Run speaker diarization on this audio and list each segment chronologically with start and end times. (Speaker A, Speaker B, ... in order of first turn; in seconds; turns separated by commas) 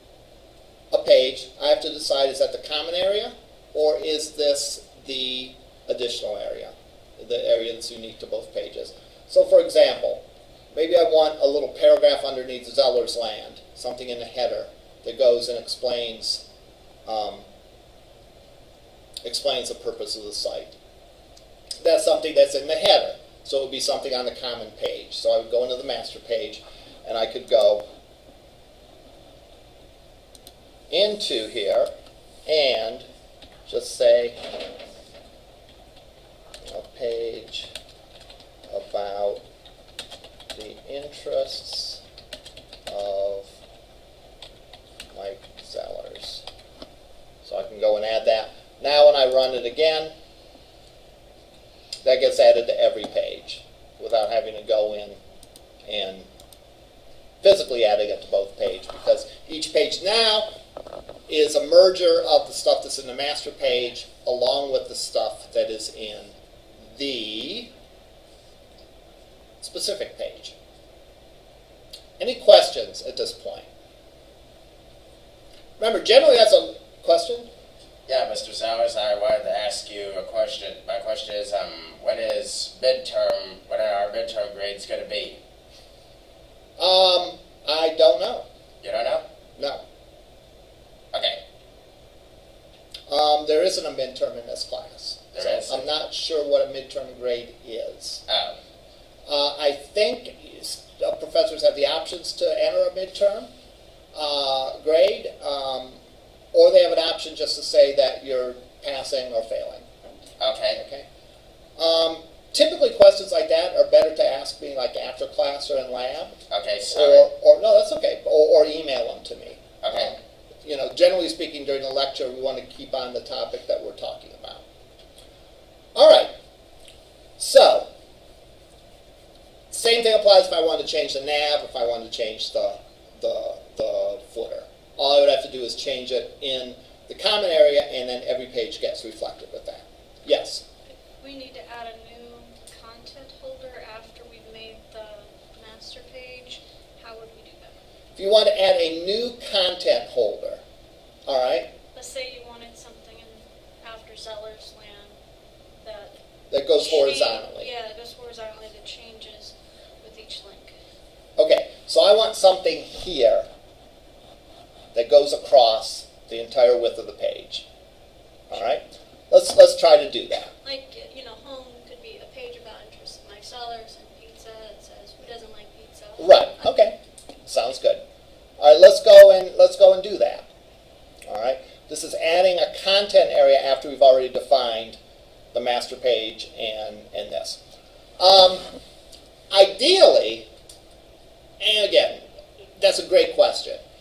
Speaker A: 0.9-16.4, Speaker A: 17.1-17.5, Speaker A: 19.2-20.7, Speaker A: 21.8-27.9, Speaker A: 30.9-31.9, Speaker A: 32.5-33.1, Speaker A: 33.7-34.4, Speaker A: 36.6-37.7, Speaker A: 38.7-39.4, Speaker A: 40.5-42.0, Speaker A: 42.9-43.6, Speaker A: 45.1-46.4, Speaker A: 47.5-50.1, Speaker A: 52.0-55.2, Speaker A: 55.9-56.3, Speaker A: 57.4-60.5, Speaker A: 61.3-66.3, Speaker A: 66.9-67.7, Speaker A: 69.6-70.5, Speaker A: 72.2-73.7, Speaker A: 75.8-77.5, Speaker B: 78.1-85.4, Speaker A: 86.8-88.5, Speaker B: 88.8-89.2, Speaker B: 91.1-91.4, Speaker A: 93.1-98.2, Speaker B: 95.3-95.8, Speaker B: 98.3-98.6, Speaker A: 99.3-103.5, Speaker A: 104.1-106.0, Speaker A: 106.5-109.9, Speaker B: 110.4-110.8, Speaker A: 110.8-111.1, Speaker A: 111.8-116.4, Speaker B: 116.5-117.3, Speaker A: 116.9-124.7, Speaker B: 119.8-120.1, Speaker A: 126.0-126.3, Speaker A: 127.4-127.9, Speaker A: 129.7-140.6, Speaker C: 141.2-147.8, Speaker A: 148.2-150.6, Speaker A: 151.3-151.7, Speaker C: 151.9-155.2, Speaker C: 155.8-156.1, Speaker A: 156.5-157.7, Speaker C: 156.7-160.8, Speaker A: 161.4-163.5, Speaker A: 164.9-167.7, Speaker A: 168.5-170.5, Speaker C: 170.6-176.4, Speaker A: 176.2-178.0, Speaker A: 178.6-180.5, Speaker A: 181.3-185.0, Speaker A: 185.5-187.6, Speaker A: 188.2-188.7, Speaker A: 189.5-190.5, Speaker A: 191.6-192.2, Speaker A: 192.8-193.8